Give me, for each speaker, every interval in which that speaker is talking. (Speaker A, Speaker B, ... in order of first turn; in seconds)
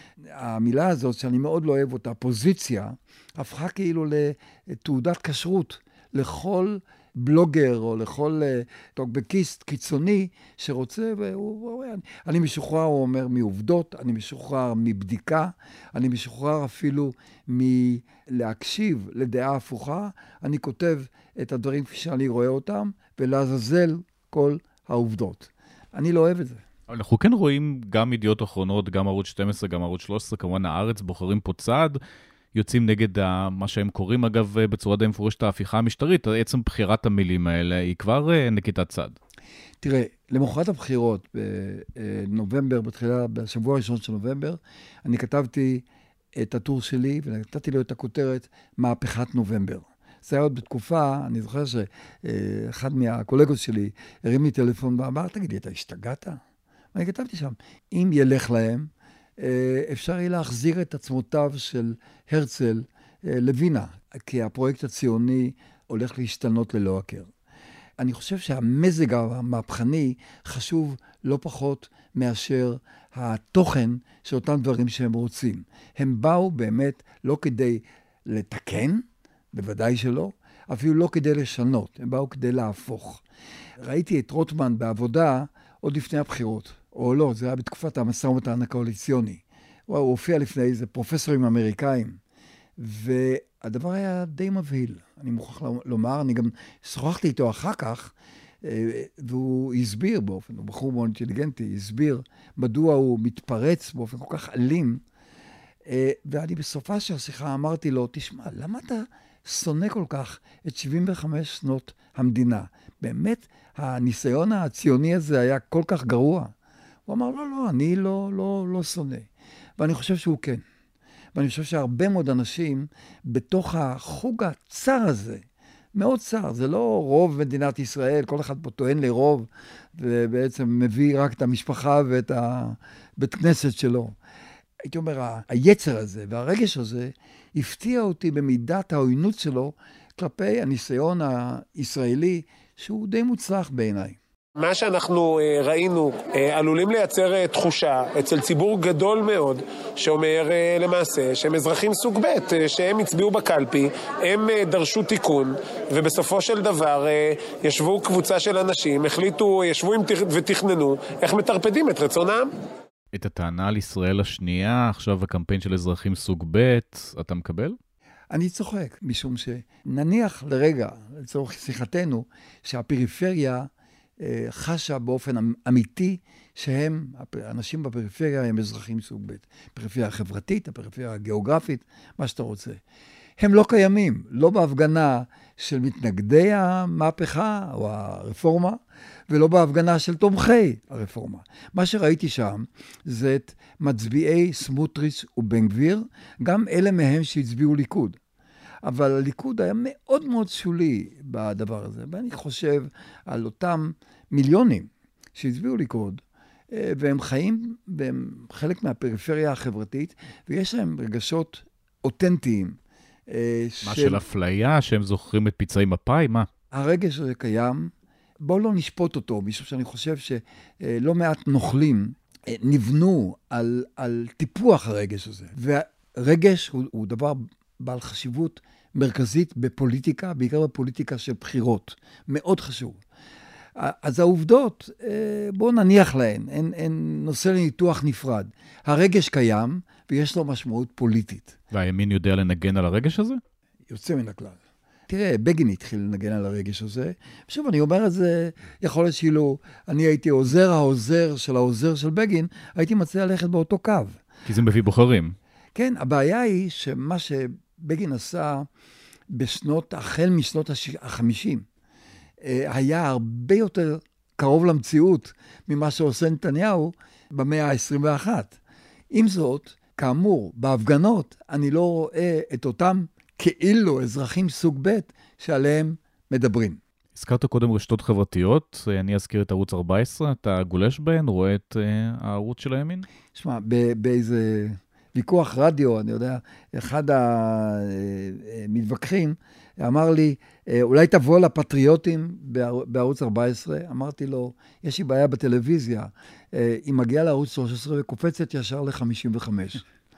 Speaker A: 0.3-26.6, 39.8-45.8, 46.4-56.4, 56.9-67.3, 68.0-83.2, 83.8-92.2, 92.8-98.1, 98.6-105.0, 105.9-116.5, 117.1-119.3, 119.8-120.6, 121.3-125.4, 125.9-134.1, 134.8-144.2, 168.3-173.7, 174.2-182.8, 183.4-188.8, 189.3-198.2, 198.8-212.8, 213.3-214.2, 216.7-233.0, 233.8-241.6, 243.9-254.2, 255.7-258.7, 259.3-261.6, 262.4-268.6, 269.1-276.8, 283.3-299.8
Speaker B: 26.9-32.0, 32.5-39.2, 163.1-167.8, 213.8-216.5, 241.7-243.4, 254.4-255.3, 277.1-283.1
Speaker C: 144.6-162.5